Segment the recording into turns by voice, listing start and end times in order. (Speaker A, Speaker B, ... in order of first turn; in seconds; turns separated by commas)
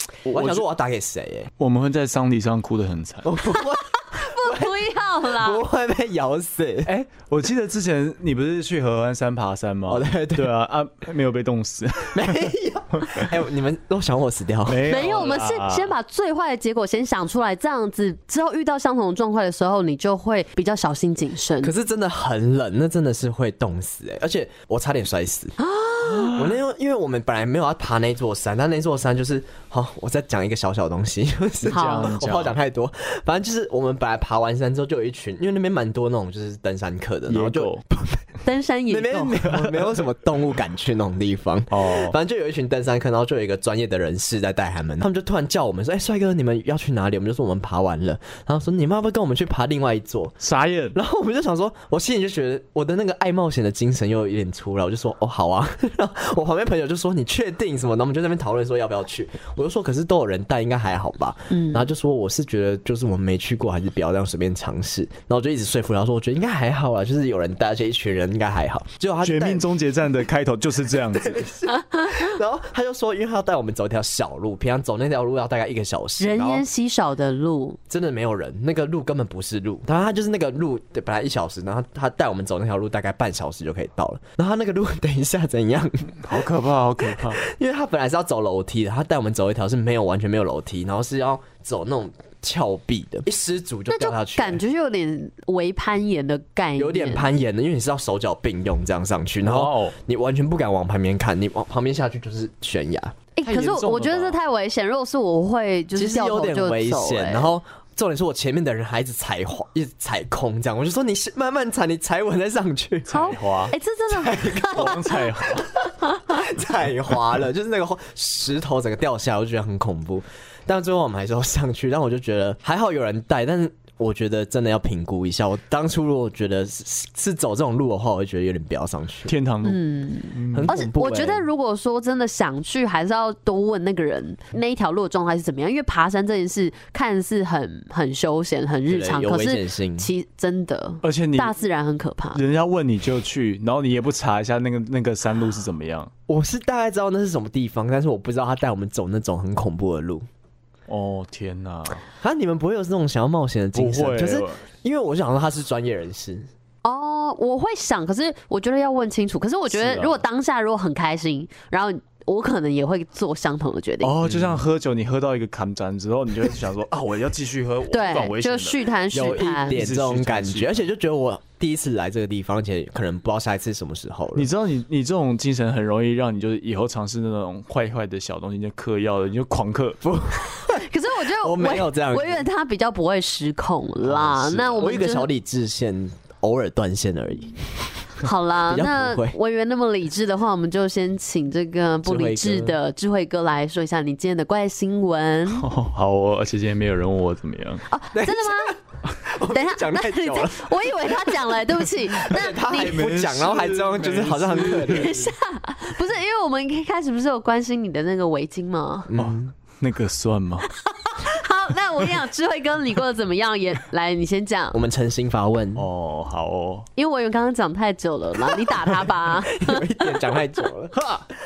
Speaker A: 0.2-1.5, Speaker B: 0.3-0.7, Speaker B: 1.6-3.3, Speaker A: 3.2-6.9, Speaker C: 3.5-5.6, Speaker B: 6.8-13.3, Speaker A: 9.9-10.5, Speaker A: 12.1-15.3, Speaker B: 14.7-15.9, Speaker C: 14.9-21.7, Speaker A: 21.6-25.6, Speaker C: 25.6-26.4, Speaker B: 26.1-26.6, Speaker A: 26.3-38.2, Speaker B: 31.6-32.6, Speaker C: 31.7-32.1, Speaker B: 37.3-37.8, Speaker C: 38.4-39.4, Speaker A: 38.9-50.4, Speaker B: 39.4-40.1, Speaker B: 41.7-42.1, Speaker B: 50.4-51.0, Speaker A: 50.9-69.6, Speaker C: 61.5-61.9, Speaker B: 69.2-71.5, Speaker A: 71.1-76.6, Speaker C: 76.2-77.8, Speaker A: 77.9-86.5, Speaker B: 86.2-87.4, Speaker A: 87.0-94.6, Speaker C: 93.9-97.3, Speaker A: 96.8-103.2, Speaker B: 99.4-99.9, Speaker C: 103.3-107.5, Speaker B: 103.4-104.4, Speaker A: 105.9-113.2, Speaker B: 113.1-113.7, Speaker C: 113.1-115.3, Speaker A: 114.1-115.2, Speaker B: 114.6-115.7, Speaker A: 115.8-129.3, Speaker C: 116.0-116.4, Speaker B: 129.3-129.8, Speaker C: 129.6-142.4, Speaker B: 130.3-130.7, Speaker A: 130.5-131.4, Speaker A: 138.9-140.1, Speaker B: 141.0-141.5, Speaker B: 142.3-146.1, Speaker A: 146.3-150.3, Speaker B: 150.9-152.0, Speaker A: 152.2-156.5, Speaker B: 153.7-154.6, Speaker C: 156.8-164.2, Speaker B: 159.7-160.2, Speaker B: 164.0-170.7, Speaker A: 164.2-164.6, Speaker C: 167.9-169.8, Speaker A: 169.1-174.5, Speaker B: 174.3-180.0, Speaker A: 180.0-182.4, Speaker C: 180.7-185.3, Speaker B: 184.1-184.9, Speaker A: 184.8-187.6, Speaker C: 188.2-195.7, Speaker A: 188.6-189.3, Speaker A: 192.0-192.8, Speaker B: 195.5-197.8, Speaker C: 197.9-198.7, Speaker A: 198.1-205.3, Speaker C: 199.5-203.0, Speaker B: 202.6-205.2, Speaker C: 204.6-209.1, Speaker A: 209.1-209.5, Speaker B: 209.1-210.7, Speaker C: 211.0-214.8, Speaker A: 214.7-215.9, Speaker B: 215.8-216.9, Speaker C: 216.9-220.1, Speaker A: 218.8-221.0, Speaker B: 220.9-221.3